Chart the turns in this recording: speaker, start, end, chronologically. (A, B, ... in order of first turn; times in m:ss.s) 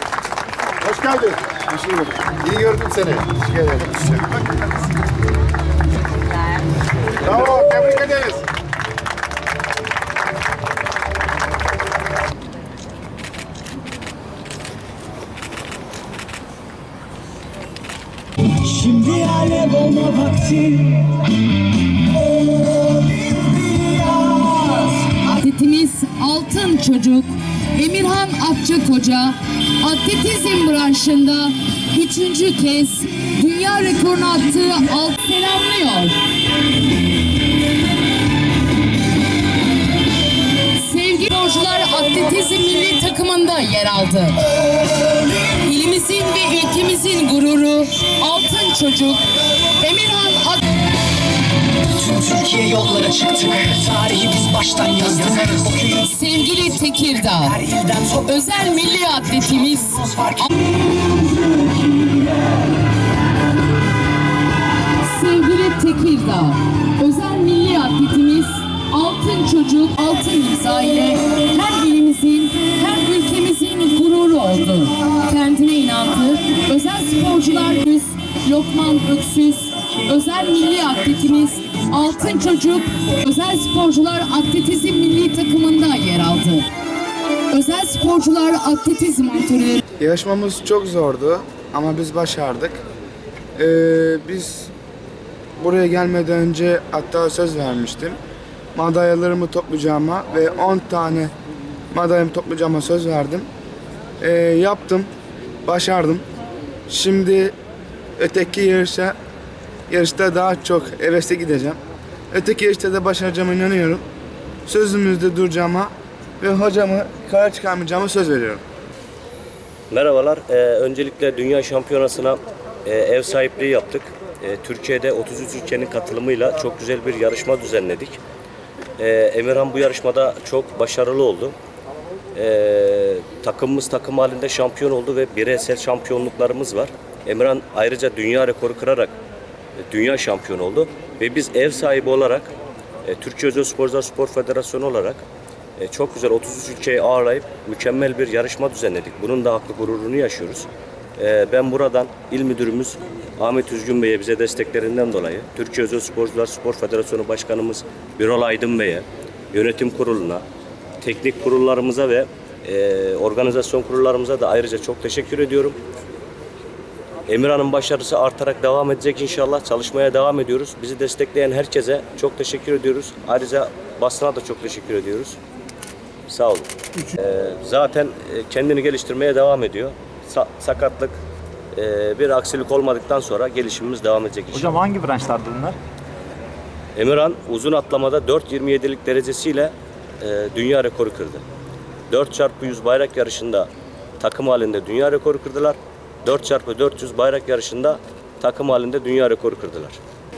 0:00.8-0:01.6 A
0:01.7-0:02.1 B
0:02.3-0:04.6 A
0:07.2-0:08.5 A
0:18.7-0:21.1 C
0:23.1-0:24.8 C
0:25.2-0:36.2 D
0:40.7-0:44.5 D
0:45.3-0:50.7 D
0:52.0-0:55.9 C
0:55.8-1:00.5 D
1:01.2-1:01.6 C
1:05.0-1:26.7 D
1:27.5-1:29.8 D
1:30.0-1:32.8 B
1:33.6-1:34.7 B
1:35.6-1:38.2 B
1:38.8-1:41.3 B
1:41.9-1:43.5 B
1:44.2-1:45.1 B
1:45.7-1:46.2 B
1:46.9-1:47.6 B
1:48.2-1:49.2 B
1:49.9-1:51.8 B
1:52.3-1:54.0 B
1:54.7-1:58.6 B
1:59.9-2:08.2 E
2:09.0-2:11.6 E
2:12.4-2:19.1 E
2:19.9-2:22.5 E
2:23.0-2:25.2 E
2:25.8-2:40.4 E
2:41.0-2:45.8 E
2:47.3-2:55.4 E
2:56.3-3:01.2 E
3:01.7-3:04.8 E
3:04.5-3:05.8 C
3:07.0-3:11.4 E
3:12.1-3:13.7 E
3:14.2-3:20.0 E